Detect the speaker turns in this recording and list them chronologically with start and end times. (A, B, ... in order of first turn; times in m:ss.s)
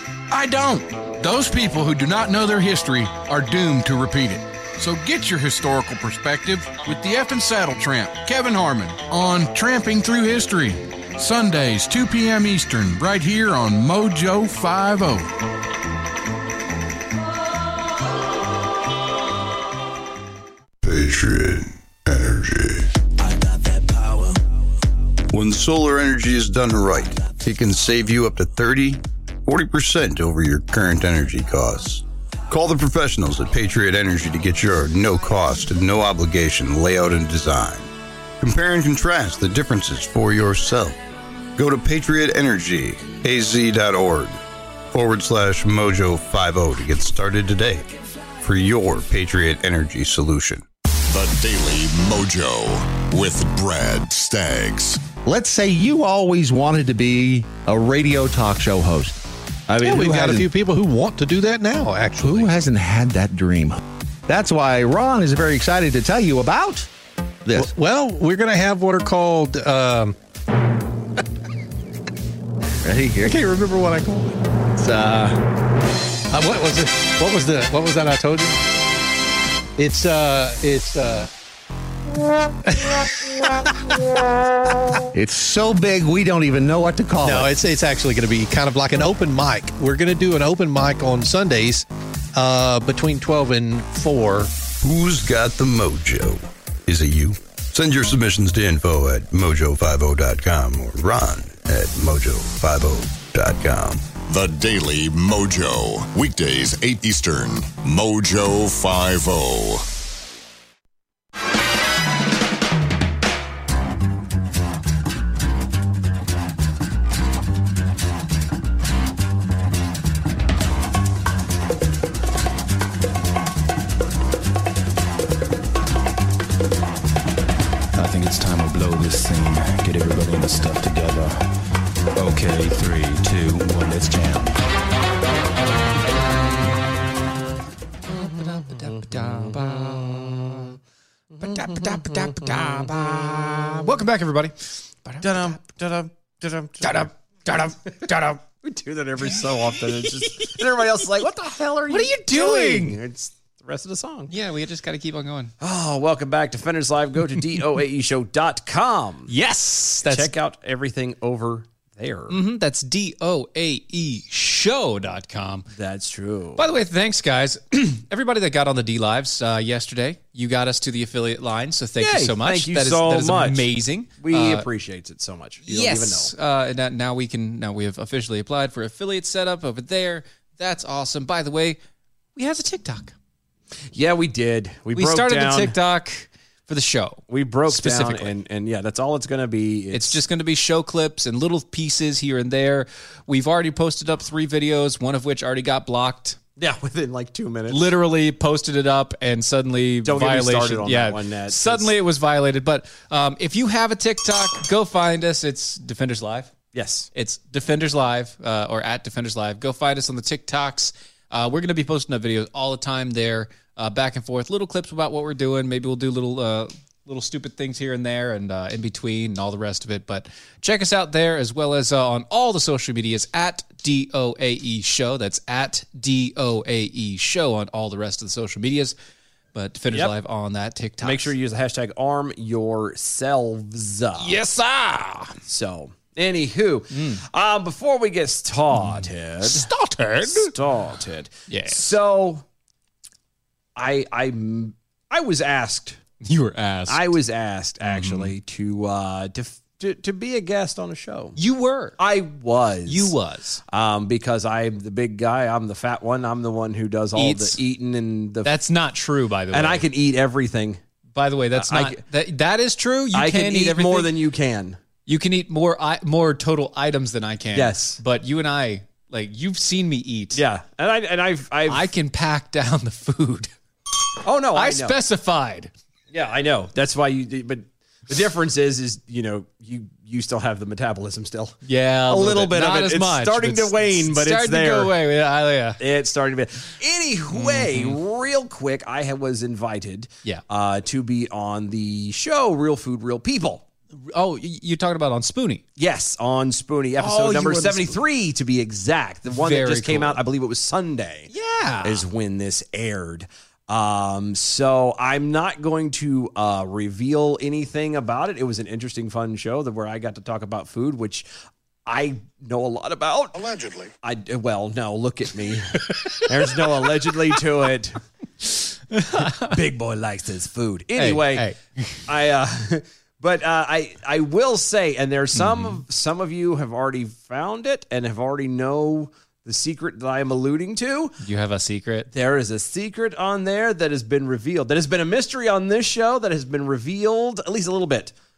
0:00.3-0:15.3 A
0:20.8-0:22.9 B
0:25.3-0:37.9 B
0:38.4-0:41.0 B
0:41.6-0:44.4 B
0:44.9-0:47.9 B
0:48.4-0:50.6 B
0:51.1-0:55.1 C
0:55.2-0:59.2 D
0:59.7-1:00.5 D
0:59.8-1:02.6 E
1:02.2-1:06.9 D
1:07.4-1:07.7 D
1:07.6-1:10.2 E
1:12.8-1:13.3 D
1:13.2-1:14.4 E
1:14.8-1:15.3 D
1:16.3-1:18.6 E
1:19.8-1:21.3 E
1:22.7-1:23.7 E
1:25.1-1:27.5 D
1:27.2-1:34.5 E
1:34.8-1:44.1 B
1:44.2-1:49.8 C
2:08.0-2:11.4 F
2:12.2-2:14.6 F
2:18.1-2:20.6 G
2:21.4-2:25.6 G
2:25.2-2:27.1 H
2:26.8-2:28.4 G
2:28.6-2:34.3 H
2:31.9-2:33.0 G
2:34.3-2:35.5 G
2:35.6-2:39.3 H
2:39.3-2:40.3 G
2:40.0-2:42.4 H
2:42.3-2:45.7 G
2:45.7-2:46.6 H
2:46.6-2:54.7 G
2:52.0-2:53.7 H
2:54.2-2:56.3 H
2:55.7-3:01.8 G
3:02.4-3:03.1 G
3:03.9-3:05.8 H
3:04.9-3:08.3 G
3:07.3-3:10.2 H
3:09.9-3:16.4 G
3:16.6-3:17.9 H
3:17.7-3:26.5 G
3:20.0-3:21.9 H
3:26.7-3:27.1 H
3:27.1-3:49.0 G
3:49.5-3:51.3 G
3:51.0-3:54.4 H
3:54.2-3:55.4 G
3:55.5-3:59.7 H
3:56.9-3:57.2 G
3:58.8-4:00.5 G
4:00.3-4:02.4 H
4:01.5-4:01.9 G
4:03.8-4:06.0 H
4:06.2-4:07.1 G
4:06.9-4:11.4 H
4:07.8-4:08.3 G
4:11.4-4:12.0 G
4:12.0-4:13.1 H
4:12.9-4:13.6 G
4:13.7-4:18.5 H
4:17.2-4:17.6 G
4:18.4-4:19.9 G
4:19.5-4:20.8 H
4:21.1-4:24.1 G
4:21.6-4:22.0 H
4:23.1-4:24.8 H
4:25.1-4:30.4 G
4:27.5-4:28.0 H
4:30.3-4:31.9 H
4:31.7-4:33.5 G
4:34.2-4:35.0 H
4:34.5-4:35.7 G
4:36.1-4:41.6 H
4:41.6-4:45.8 G
4:42.1-4:45.0 H
4:45.8-4:53.6 H
4:47.3-4:48.0 G
4:53.9-4:55.6 G
4:55.8-5:01.3 H
4:57.0-4:58.0 G
4:59.3-5:00.2 G
5:01.3-5:02.0 G
5:01.8-5:11.3 H
5:11.9-5:18.0 H
5:18.9-5:19.6 G
5:19.2-5:21.5 H
5:21.0-5:22.0 G
5:22.1-5:31.1 H
5:25.3-5:25.8 G
5:31.2-5:32.1 G
5:32.1-5:38.1 H